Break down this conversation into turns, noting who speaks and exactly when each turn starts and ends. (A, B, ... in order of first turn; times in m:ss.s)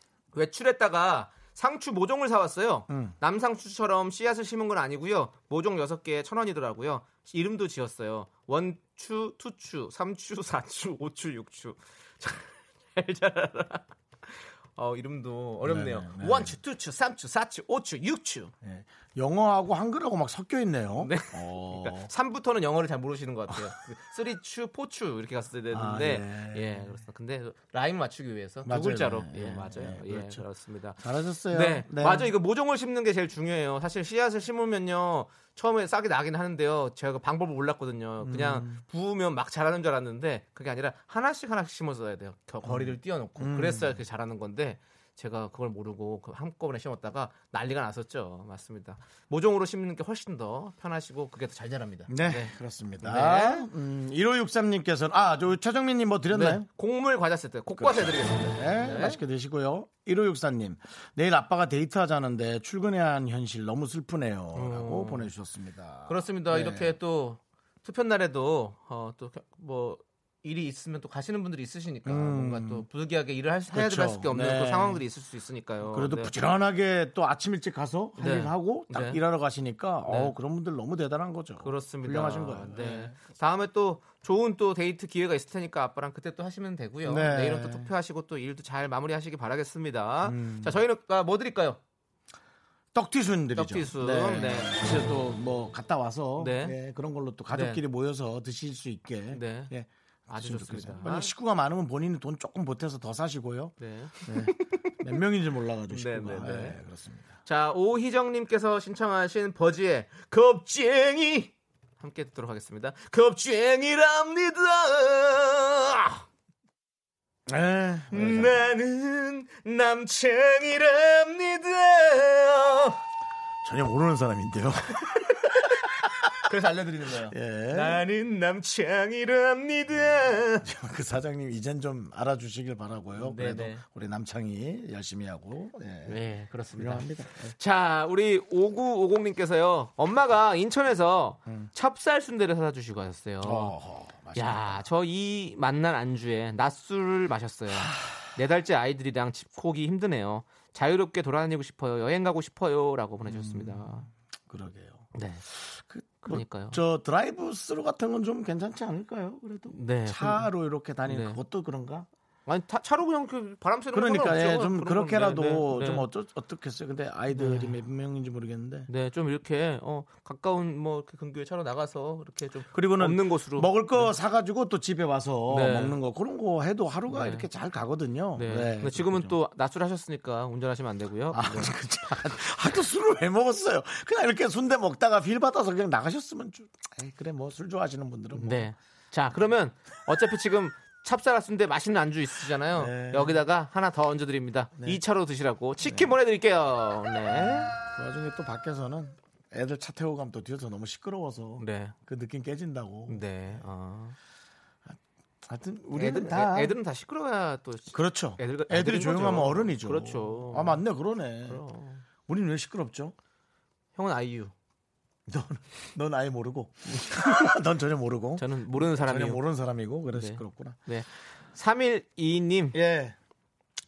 0:00.3-0:18.5 A
0:02.9-0:03.2 B
0:15.6-0:16.6 B
0:18.6-0:22.1 B
0:21.0-0:53.7 A
0:25.7-0:26.9 B
0:28.6-0:30.4 B
0:31.0-0:32.3 B
0:38.2-0:38.8 B
0:42.6-0:44.0 B
0:52.1-0:56.7 B
0:56.3-0:59.2 A
0:57.8-1:07.0 B
1:04.5-1:05.3 A
1:06.1-1:16.3 A
1:12.0-1:12.8 B
1:13.7-1:15.0 B
1:15.9-1:23.2 B
1:18.2-1:19.2 A
1:21.6-1:31.8 A
1:27.0-1:27.9 B
1:30.2-1:30.8 B
1:32.9-1:43.7 B
1:33.6-1:34.8 A
1:36.4-1:36.8 A
1:37.5-1:37.8 A
1:39.3-1:39.7 A
1:40.3-1:41.3 A
1:43.8-1:44.9 A
1:44.2-1:47.4 B
1:45.9-1:46.8 A
1:47.5-1:56.2 A
1:57.5-1:58.6 B
1:58.1-2:03.0 A
2:03.6-2:05.2 B
2:05.1-2:10.7 A
2:07.3-2:08.0 B
2:10.6-2:16.2 B
2:13.2-2:13.8 A
2:16.1-2:23.8 A
2:16.8-2:17.6 B
2:23.4-2:24.8 B
2:24.4-2:34.1 A
2:27.7-2:28.1 B
2:33.2-2:35.1 B
2:35.2-2:35.4 A
2:35.7-2:42.1 B
2:36.2-2:36.8 A
2:39.7-2:40.5 A
2:41.1-2:41.4 A
2:42.5-2:46.1 A
2:43.9-2:48.9 B
2:47.3-2:47.8 A
2:48.9-2:54.1 A
2:52.7-2:59.4 B
2:55.5-2:56.0 A
2:57.1-2:57.5 A
2:58.4-3:02.1 A
3:01.3-3:08.7 B
3:08.3-3:17.7 A
3:12.8-3:13.4 B
3:15.8-3:16.1 B
3:17.3-3:23.6 B
3:21.6-3:21.9 A
3:23.1-3:24.2 A
3:25.4-3:26.7 B
3:25.9-3:30.8 A
3:27.9-3:31.6 B
3:31.4-3:32.0 A
3:32.3-3:33.2 B
3:34.0-3:34.5 A
3:35.3-3:40.8 B
3:37.0-3:37.3 A
3:38.4-3:39.4 A
3:40.1-3:42.8 A
3:42.7-3:43.2 B